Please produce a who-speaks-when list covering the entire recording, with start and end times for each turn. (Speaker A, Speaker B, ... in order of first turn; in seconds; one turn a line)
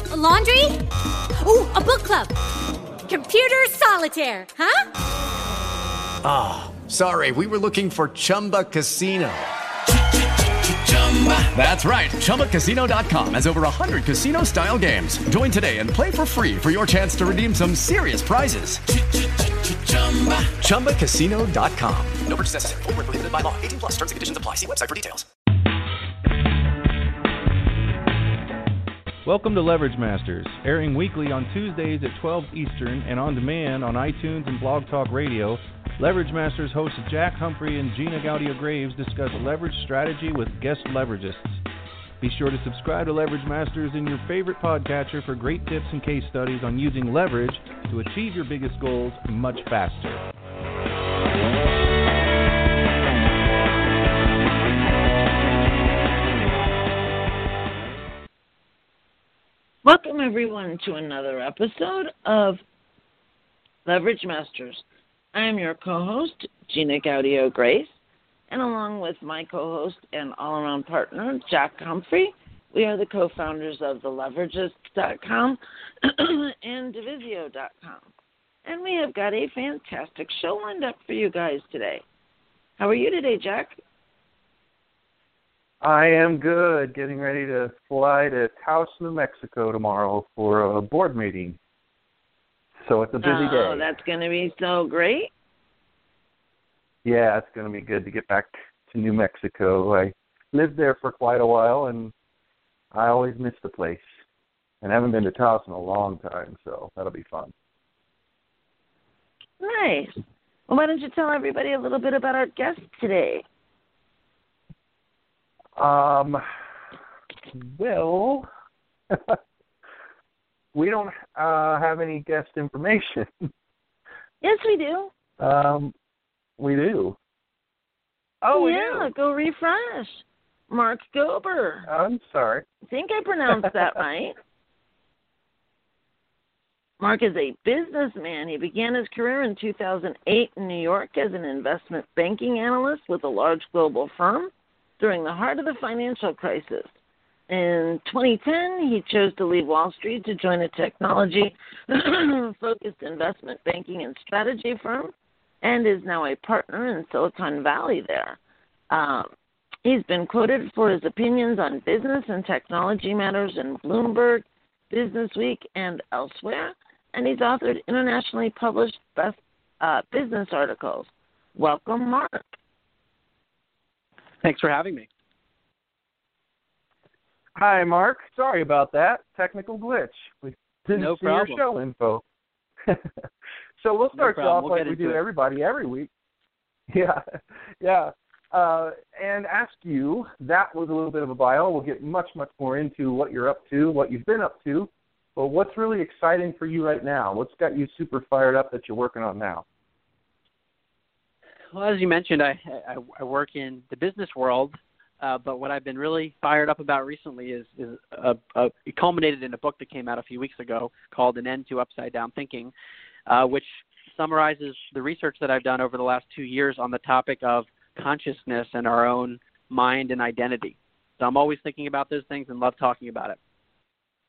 Speaker A: 0.1-0.8
Speaker A: 1.4-2.3
Speaker A: 3.1-4.8
Speaker B: 6.2-9.5
Speaker B: 10.4-25.3
Speaker C: 29.2-41.6
Speaker C: 42.2-50.2
Speaker D: 59.8-62.6
Speaker D: 63.9-67.9
Speaker D: 68.5-78.0
Speaker D: 78.6-82.0
Speaker D: 82.8-83.8
Speaker E: 85.8-91.6
Speaker E: 92.8-93.9
Speaker D: 93.2-95.3
Speaker E: 97.0-102.1
Speaker E: 102.9-104.0
Speaker E: 104.8-107.5
Speaker D: 109.6-110.2
Speaker D: 110.7-113.4
Speaker E: 115.8-116.4
Speaker E: 117.5-118.5
Speaker E: 119.1-119.4
Speaker E: 120.7-123.5
Speaker D: 124.4-125.1
Speaker E: 125.4-125.9
Speaker E: 126.6-127.2
Speaker E: 128.4-129.1
Speaker D: 128.5-131.9
Speaker E: 131.8-132.6
Speaker D: 132.9-134.3
Speaker D: 137.0-146.9
Speaker D: 147.5-155.1
Speaker D: 155.6-158.4
Speaker D: 158.9-159.3
Speaker D: 159.8-172.4
Speaker F: 174.4-175.1
Speaker E: 177.6-182.2
Speaker F: 180.9-181.6
Speaker E: 183.8-186.1
Speaker F: 184.2-185.2
Speaker E: 186.9-187.2
Speaker E: 187.8-199.6
Speaker F: 201.7-212.7
Speaker F: 213.3-223.4